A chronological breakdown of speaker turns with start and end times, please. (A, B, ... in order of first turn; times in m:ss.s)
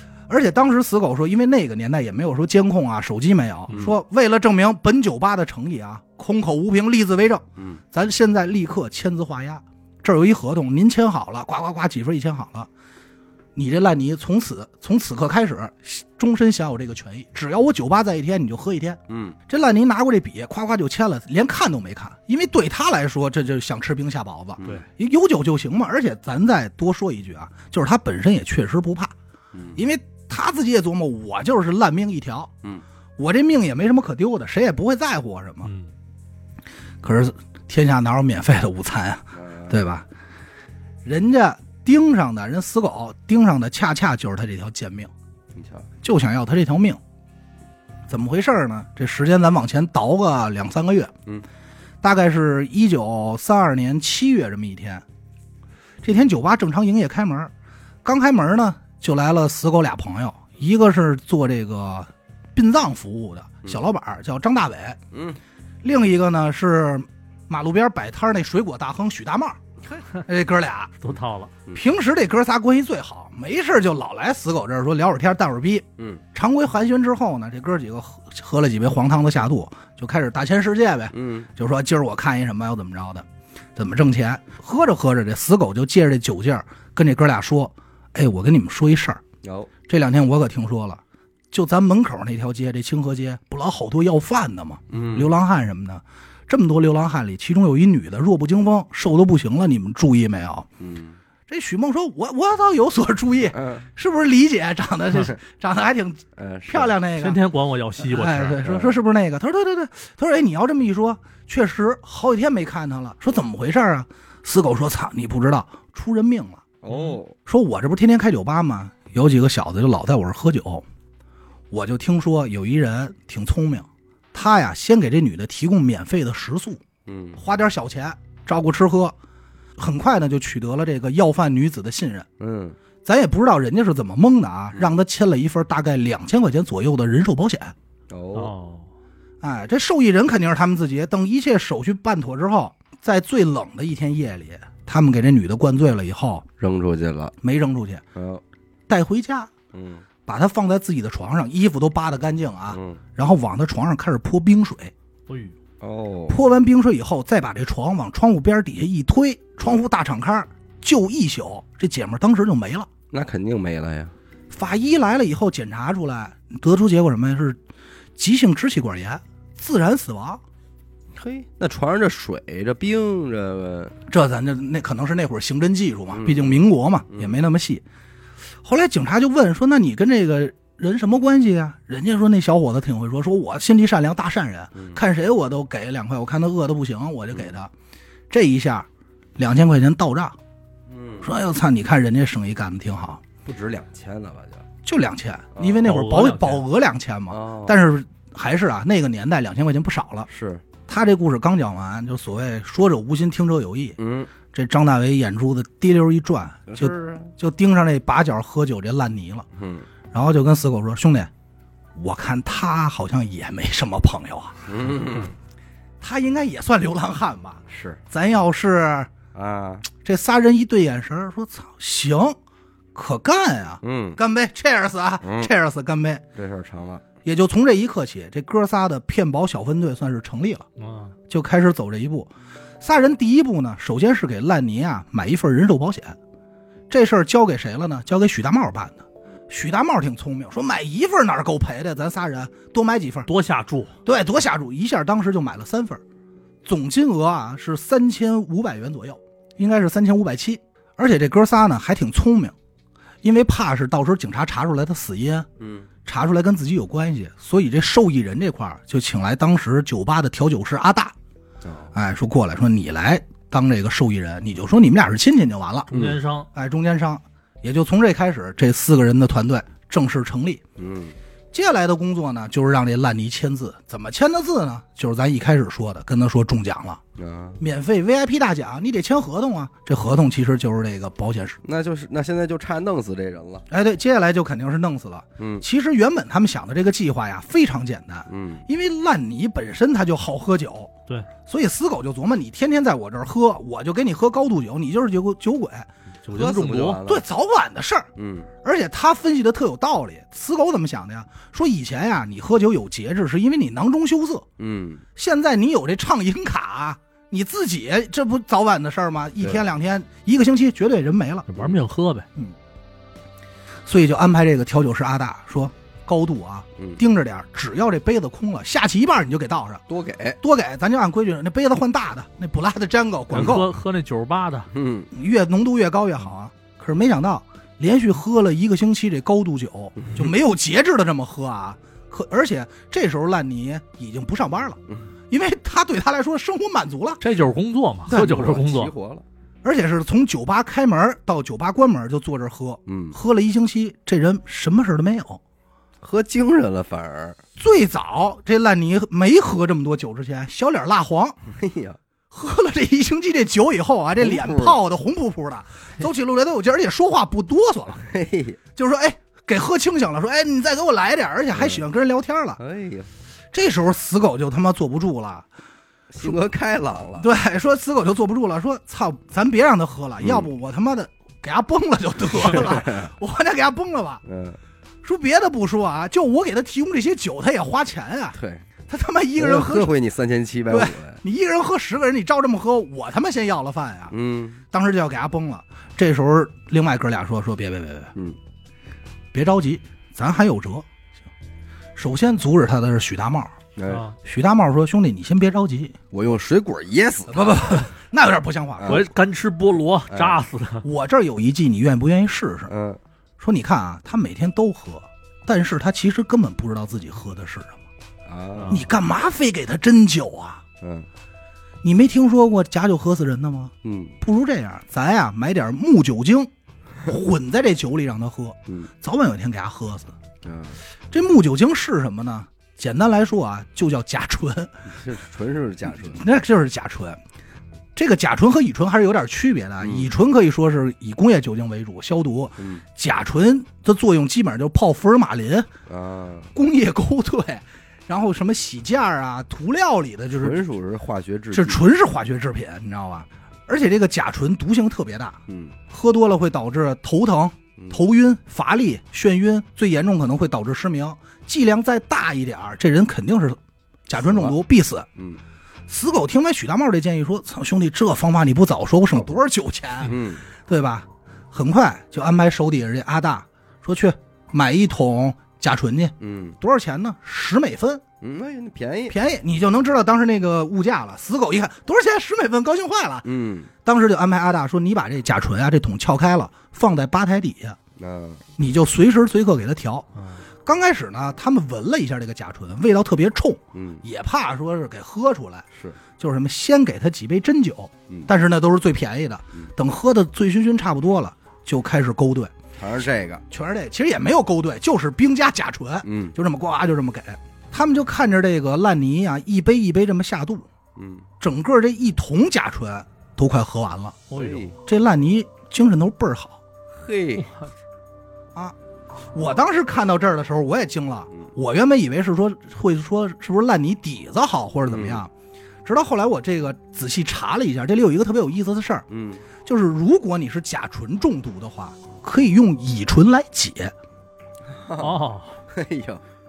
0:00.3-0:12.7 A
0:03.7-0:04.0 B
0:07.6-0:07.8 B
0:13.6-0:29.1 A
0:19.1-0:19.4 B
0:24.6-0:24.8 B
0:29.5-0:29.8 B
0:29.8-0:32.5 A
0:33.2-0:35.7 A
0:35.6-0:35.9 C
0:37.0-0:40.1 A
0:39.3-0:39.8 B
0:41.0-0:45.1 A
0:45.6-0:45.9 B
0:46.0-0:47.0 A
0:48.1-0:51.1 A
0:52.0-0:55.0 A
0:56.0-0:57.5 A
0:58.0-1:05.0 A
1:05.1-1:05.4 B
1:05.8-1:09.6 A
1:10.2-1:11.0 A
1:11.0-1:11.5 C
1:11.7-1:29.2 A
1:21.1-1:21.5 B
1:29.4-1:29.7 B
1:29.9-1:40.7 A
1:34.9-1:35.3 B
1:40.8-1:41.2 B
1:41.5-1:47.4 A
1:43.5-1:43.9 B
1:46.4-1:47.0 B
1:47.2-1:48.7 C
1:48.0-1:56.7 A
1:48.6-1:49.0 B
1:56.8-1:57.4 B
1:56.9-1:57.2 C
1:57.5-2:00.8 A
2:01.7-2:06.8 A
2:07.1-2:07.4 B
2:07.4-2:09.2 A
2:09.8-2:12.3 A
2:12.4-2:12.8 B
2:13.0-2:17.8 A
2:18.1-2:18.5 B
2:18.3-2:18.9 C
2:19.4-2:26.5 A
2:26.6-2:27.4 B
2:27.4-2:28.0 A
2:28.2-2:28.4 B
2:28.9-2:29.5 A
2:29.7-2:30.1 B
2:30.2-2:34.9 A
2:32.7-2:33.0 B
2:35.3-2:35.6 C
2:35.8-2:36.4 B
2:36.3-2:42.9 A
2:43.1-2:44.1 B
2:44.5-2:47.6 A
2:48.2-2:50.4 A
2:51.1-2:54.0 B
2:54.1-2:57.8 A
2:56.1-2:56.6 B
2:57.1-2:57.4 B
2:58.6-3:07.7 A
3:04.8-3:05.0 B
3:08.3-3:10.4 A
3:10.9-3:11.3 B
3:11.2-3:13.2 A
3:13.4-3:14.6 B
3:14.8-3:20.3 A
3:15.6-3:15.8 B
3:15.8-3:16.6 C
3:17.3-3:17.8 B
3:20.3-3:20.6 B
3:20.9-3:24.0 A
3:24.0-3:24.3 B
3:24.5-3:29.5 A
3:26.7-3:27.3 B
3:29.5-3:29.9 B
3:30.1-3:31.3 A
3:32.0-3:34.6 A
3:34.7-3:35.3 B
3:36.0-3:39.1 A
3:37.7-3:38.0 B
3:39.3-3:39.9 B
3:40.0-3:42.4 A
3:43.0-3:46.2 A
3:43.8-3:44.2 B
3:45.2-3:45.5 B
3:46.4-3:47.0 B
3:47.2-3:50.7 A
3:50.8-3:51.2 C
3:51.3-3:52.3 A
3:52.8-3:56.2 A
3:56.9-4:03.3 A
4:03.3-4:03.9 C
4:04.0-4:06.0 A
4:06.6-4:12.6 A
4:13.2-4:15.5 A
4:15.6-4:15.9 B
4:16.0-4:21.2 A
4:21.6-4:21.9 B
4:21.9-4:25.9 A
4:25.9-4:26.2 B
4:25.9-4:26.5 C
4:26.5-4:30.6 A
4:30.8-4:31.2 B
4:31.5-4:37.0 A
4:37.2-4:37.6 B
4:37.6-4:41.6 A
4:41.6-4:43.7 B
4:43.7-4:50.9 A
4:45.4-4:45.6 B
4:48.3-4:48.6 B
4:51.5-4:55.9 A
4:56.2-4:57.0 C
4:56.3-4:57.3 B
4:57.0-4:58.1 A
4:58.2-4:58.5 B
4:58.6-5:04.4 A
5:04.6-5:05.0 B
5:05.2-5:11.5 A
5:11.5-5:12.3 C
5:13.9-5:19.8 A
5:19.9-5:20.4 B
5:20.4-5:23.7 A
5:23.3-5:24.7 C
5:24.7-5:25.1 B
5:25.1-5:34.8 A
5:35.3-5:37.2 A
5:37.2-5:38.9 C
5:38.1-5:38.5 A
5:38.1-5:39.2 B
5:39.6-5:45.4 A
5:42.9-5:43.2 B
5:46.0-5:47.4 B
5:47.6-5:51.4 A
5:51.5-5:52.0 B
5:52.3-5:58.1 A
5:54.2-5:54.8 B
5:58.0-5:58.6 B
5:58.8-6:02.6 A
6:01.5-6:01.8 B
6:02.6-6:03.1 B
6:03.5-6:05.5 A
6:06.1-6:07.3 B
6:07.2-6:14.2 A
6:10.2-6:10.5 B
6:12.3-6:13.1 B
6:14.2-6:14.6 B
6:15.0-6:18.4 A
6:18.3-6:18.7 B
6:18.9-6:19.9 A
6:19.4-6:21.2 B
6:20.7-6:24.2 A
6:24.1-6:24.6 B
6:24.7-6:28.1 A
6:29.3-6:30.9 A
6:32.0-6:33.6 A
6:33.8-6:34.1 B
6:33.9-6:34.2 C
6:34.2-6:36.0 A
6:36.1-6:37.9 B
6:37.3-6:39.1 A
6:38.8-6:39.0 B
6:38.9-6:40.8 C
6:40.1-6:40.4 B
6:40.8-6:42.7 A
6:42.7-6:43.0 B
6:43.4-6:47.8 A
6:48.3-6:48.8 B
6:48.6-6:48.8 C
6:48.7-6:50.6 A
6:50.8-6:51.1 B
6:51.8-6:56.5 A
6:53.8-6:54.2 B
6:57.0-7:00.2 A
7:00.4-7:00.8 B
7:01.1-7:04.7 A
7:04.9-7:06.2 B
7:05.9-7:07.2 A
7:08.0-7:15.7 A
7:09.8-7:10.1 B
7:12.6-7:12.8 B
7:15.9-7:16.5 B
7:16.6-7:20.6 A
7:20.4-7:21.8 B
7:21.5-7:35.1 A
7:25.5-7:25.8 B
7:27.8-7:28.0 B
7:34.2-7:34.6 B
7:35.2-7:35.4 B
7:35.9-7:48.0 A
7:40.0-7:40.5 B
7:46.2-7:46.6 B
7:48.2-7:49.2 B
7:49.1-7:53.3 A
7:53.2-7:53.7 B
7:53.8-7:57.8 A
7:58.0-7:58.4 B
7:58.6-8:00.1 A
8:00.6-8:05.7 A
8:03.7-8:04.0 B
8:06.2-8:12.6 A
8:12.8-8:13.4 B
8:13.5-8:20.7 A
8:16.0-8:16.4 B
8:21.0-8:21.3 B
8:21.4-8:24.2 A
8:24.3-8:24.8 C
8:24.3-8:24.8 B
8:24.9-8:26.6 A
8:26.9-8:27.5 B
8:27.4-8:27.7 C
8:29.3-8:35.3 A
8:34.8-8:35.2 B
8:35.8-8:39.0 A
8:39.1-8:39.4 B
8:39.6-8:43.9 A
8:44.6-8:46.2 B
8:45.0-8:45.6 C